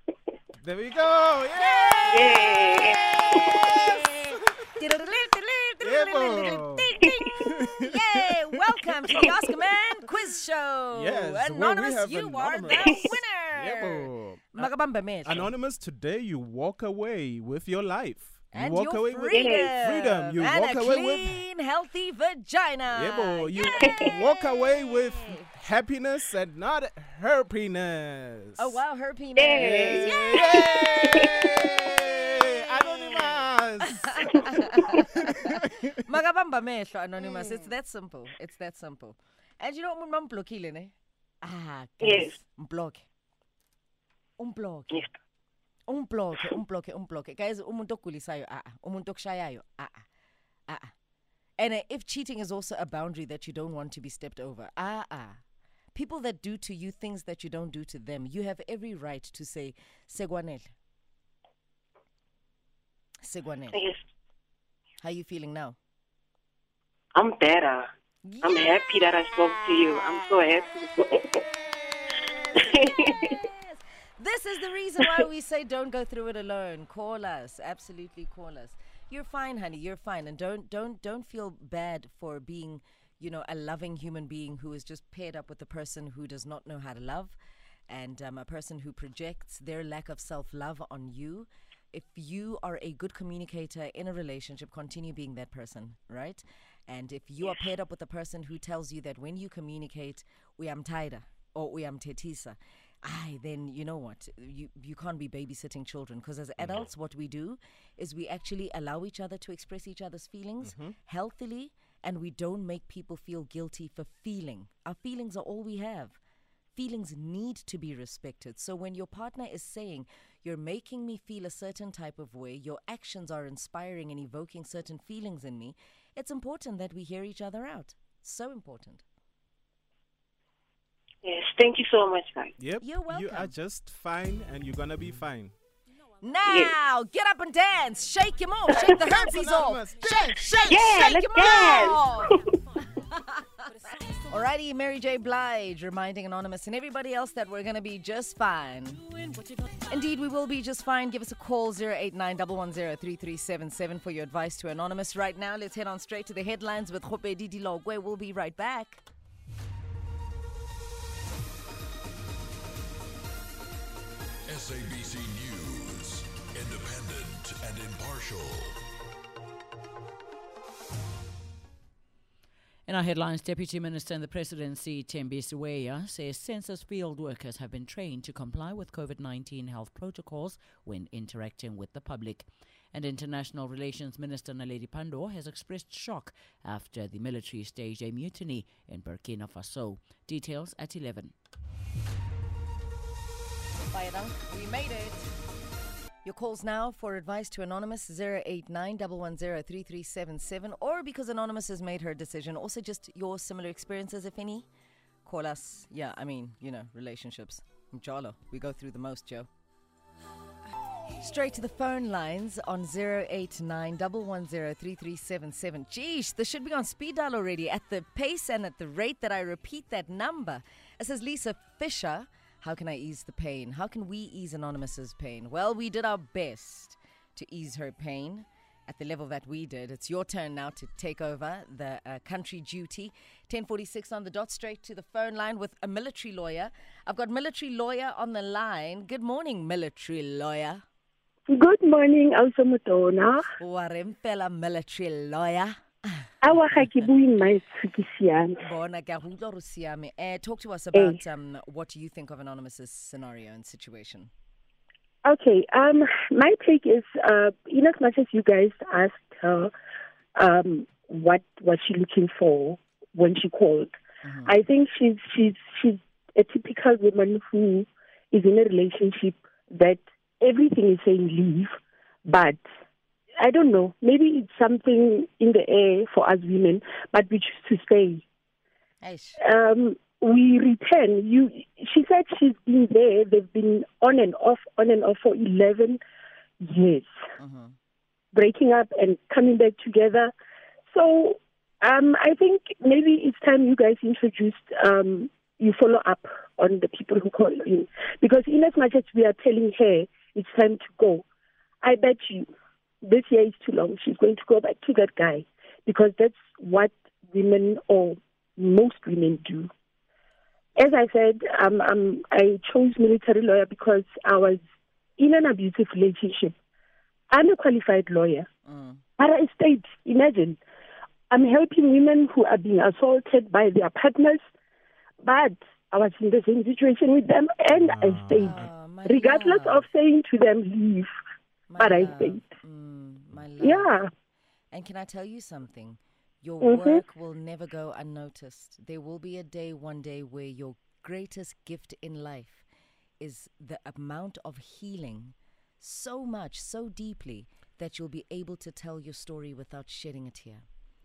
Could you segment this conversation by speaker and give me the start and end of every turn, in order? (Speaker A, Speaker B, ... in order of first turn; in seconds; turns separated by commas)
Speaker A: 0.6-4.4, Speaker B: 1.6-15.5, Speaker C: 2.1-3.0, Speaker A: 5.8-8.2, Speaker A: 10.9-14.7, Speaker A: 15.2-21.4, Speaker B: 18.5-25.5, Speaker C: 19.3-19.7, Speaker A: 22.9-28.8, Speaker B: 28.6-33.4, Speaker C: 29.4-31.3, Speaker A: 29.6-35.7, Speaker B: 34.3-43.1, Speaker C: 42.0-42.4, Speaker B: 44.4-45.1, Speaker B: 45.9-50.1, Speaker B: 50.7-50.9, Speaker B: 51.6-55.4, Speaker B: 55.9-60.7, Speaker B: 63.2-63.8, Speaker C: 63.7-64.0, Speaker B: 65.0-65.8, Speaker C: 67.2-67.9, Speaker B: 68.2-68.8, Speaker C: 68.4-71.4, Speaker B: 69.7-70.6, Speaker B: 71.1-87.4, Speaker C: 72.6-73.4, Speaker B: 87.9-116.2, Speaker A: 110.6-111.0, Speaker B: 116.8-129.0, Speaker C: 131.2-132.5, Speaker A: 132.6-135.6, Speaker B: 132.8-133.5, Speaker B: 136.2-142.4, Speaker C: 136.5-136.7, Speaker A: 138.8-140.9, Speaker C: 140.7-142.0, Speaker B: 144.2-149.1, Speaker B: 149.9-159.0, Speaker D: 164.5-168.8, Speaker E: 172.9-191.3, Speaker B: 193.9-195.3, Speaker B: 196.2-204.7, Speaker B: 205.2-209.5, Speaker B: 211.1-240.8, Speaker F: 241.5-243.5, Speaker B: 243.6-246.9, Speaker F: 246.4-248.6, Speaker B: 248.6-254.3, Speaker F: 255.2-259.7, Speaker F: 260.4-263.9, Speaker B: 264.2-264.5, Speaker F: 264.4-272.6, Speaker F: 273.4-278.2, Speaker B: 279.0-279.4, Speaker F: 279.4-286.0, Speaker F: 286.6-287.1, Speaker B: 287.4-287.8, Speaker F: 288.3-290.3, Speaker F: 290.9-301.2, Speaker F: 301.8-302.5, Speaker F: 303.0-309.7, Speaker F: 310.8-314.6, Speaker F: 315.2-316.6, Speaker F: 317.3-318.5, Speaker B: 318.6-319.0, Speaker F: 319.2-320.6, Speaker F: 321.3-324.4, Speaker F: 325.2-331.1, Speaker A: 327.7-328.7, Speaker B: 328.4-329.9, Speaker B: 331.7-333.9, Speaker F: 331.8-332.4, Speaker F: 333.6-334.1, Speaker B: 334.7-342.6, Speaker F: 336.6-337.0, Speaker B: 343.2-350.6